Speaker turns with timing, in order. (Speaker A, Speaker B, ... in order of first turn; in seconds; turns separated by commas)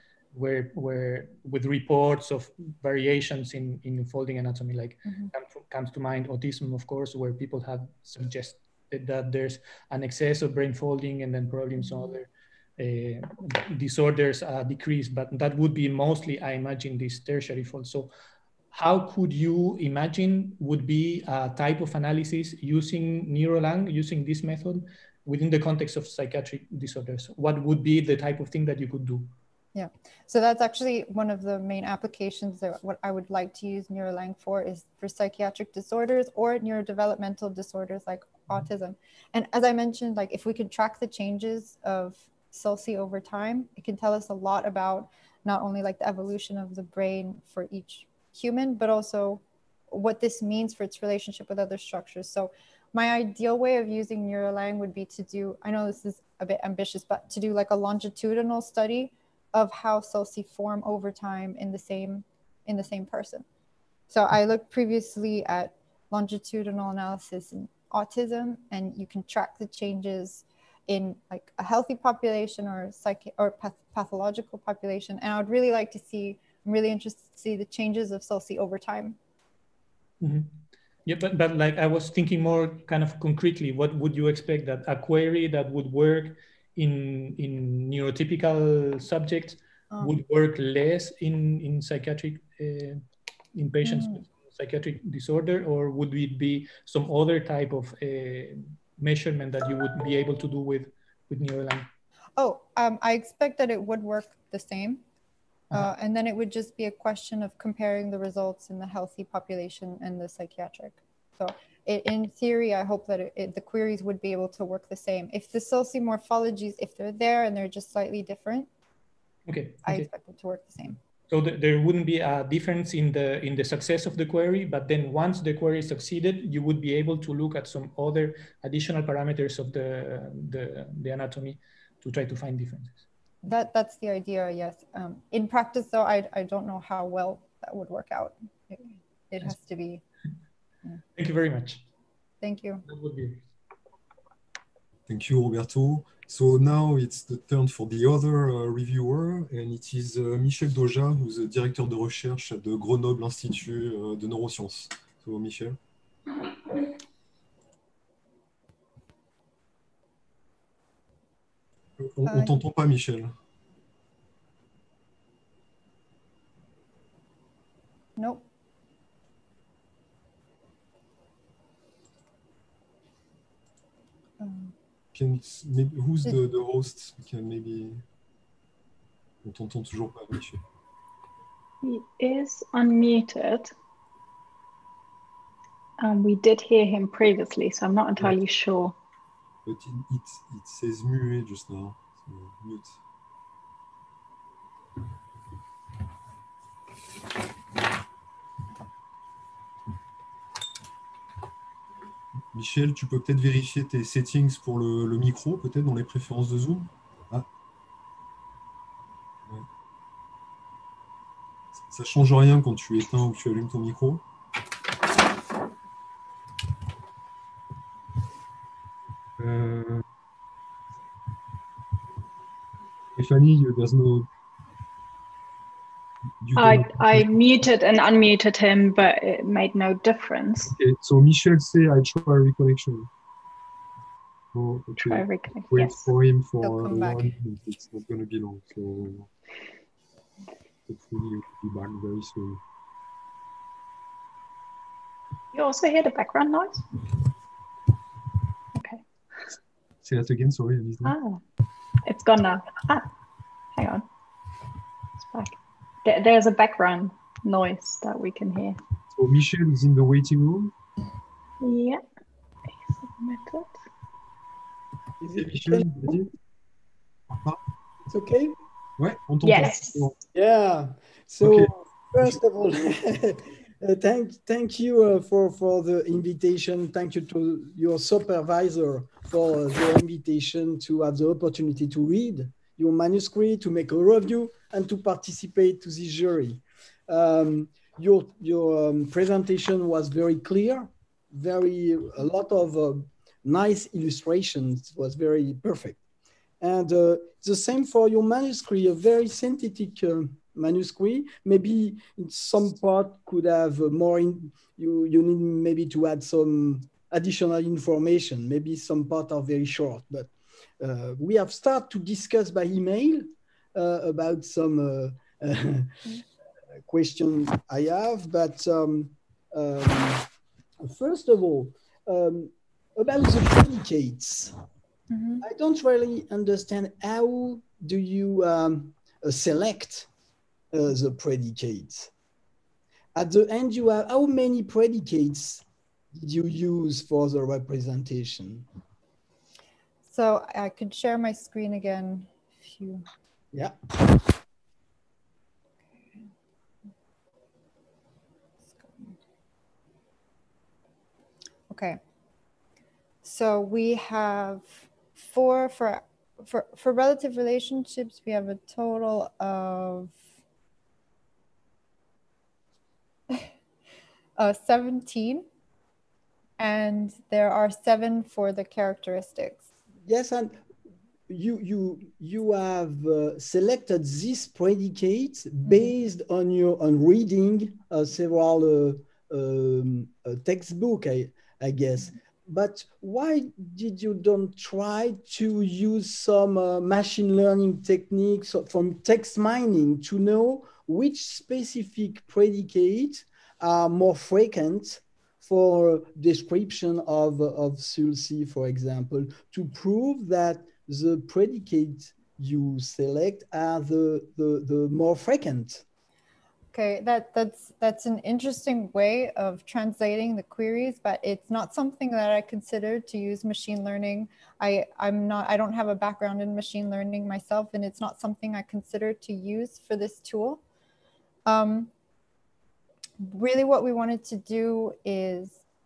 Speaker A: 0.3-18.1, Speaker B: 5.0-5.3, Speaker B: 11.8-12.2, Speaker A: 18.7-29.3, Speaker B: 29.7-63.4, Speaker B: 64.1-79.2, Speaker A: 80.2-93.0, Speaker A: 93.5-101.9, Speaker B: 93.8-94.2, Speaker B: 102.4-105.0, Speaker B: 105.7-118.7, Speaker A: 119.5-120.1, Speaker B: 119.8-121.0, Speaker A: 121.3-133.0, Speaker B: 133.4-140.0, Speaker A: 141.2-141.8, Speaker B: 142.4-142.8, Speaker A: 142.9-143.4, Speaker C: 145.1-155.8, Speaker C: 162.0-163.3, Speaker B: 162.2-162.6, Speaker B: 168.2-168.4, Speaker B: 174.4-174.7, Speaker C: 175.1-178.0, Speaker C: 179.4-180.6, Speaker D: 181.8-183.7, Speaker D: 186.0-188.9, Speaker C: 189.6-193.0, Speaker C: 202.5-207.5, Speaker C: 211.8-214.2, Speaker C: 219.4-220.0, Speaker C: 223.1-224.3, Speaker C: 226.4-227.3, Speaker D: 226.6-230.7, Speaker C: 230.7-233.1, Speaker C: 234.5-239.3, Speaker D: 235.0-236.1, Speaker B: 236.6-237.3, Speaker C: 240.9-242.6, Speaker D: 245.5-247.1, Speaker D: 248.7-249.0, Speaker C: 250.0-251.2, Speaker D: 251.0-251.4, Speaker D: 252.0-253.1, Speaker D: 253.8-254.1, Speaker D: 255.2-258.8, Speaker C: 259.1-260.7, Speaker D: 261.6-262.0, Speaker D: 262.8-263.7, Speaker E: 265.2-266.1, Speaker C: 265.3-266.3, Speaker C: 267.3-267.6, Speaker E: 268.1-268.6, Speaker C: 269.0-270.2, Speaker D: 269.4-270.1, Speaker E: 270.3-296.0, Speaker C: 271.4-272.4, Speaker E: 296.6-315.9, Speaker E: 316.9-320.3, Speaker E: 320.8-324.6, Speaker B: 325.1-325.4, Speaker E: 325.4-330.1, Speaker E: 330.7-332.1, Speaker E: 333.1-338.7, Speaker B: 340.1-343.1, Speaker B: 348.8-349.1, Speaker B: 351.7-352.0, Speaker B: 353.2-360.2, Speaker B: 364.4-365.4, Speaker B: 366.6-369.6, Speaker E: 370.1-370.6, Speaker E: 371.3-405.8, Speaker B: 375.6-375.9, Speaker B: 406.7-420.6, Speaker B: 421.4-421.9, Speaker B: 423.2-425.6